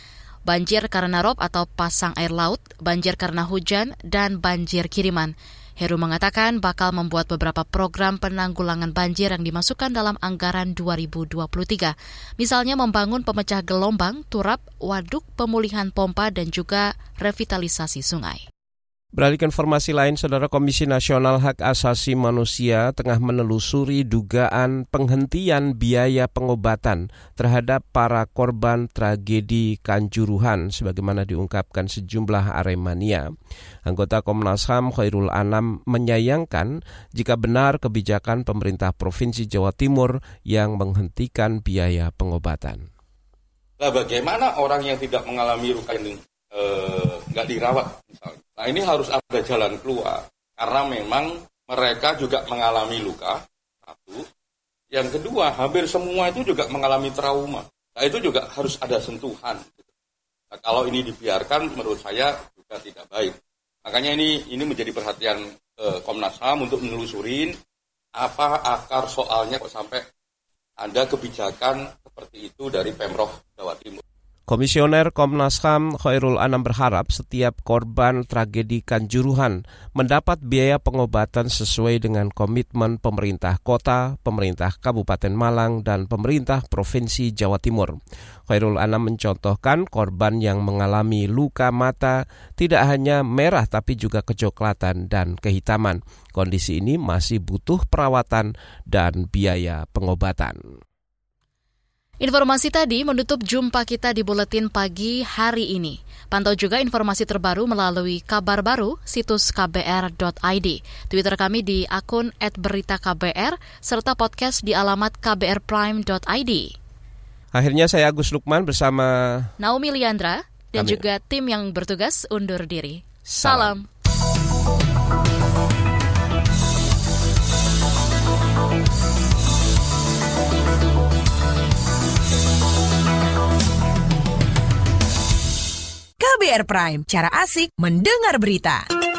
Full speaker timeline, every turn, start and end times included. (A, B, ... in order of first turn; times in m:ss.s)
0:00.5-0:18.4 A
0:19.1-0:33.3 B
0:33.9-0:42.9 B
0:43.8-0:54.2 C
0:54.9-0:59.8 C
1:00.5-1:03.4 C
1:03.9-1:07.6 C
1:08.2-1:10.0 C
1:10.8-1:14.0 C
1:14.5-1:28.0 B
1:28.5-1:40.6 B
1:42.2-1:56.7 A
1:57.5-1:59.5 B
1:59.6-2:03.9 A
2:03.2-2:03.7 B
2:16.2-2:18.9 D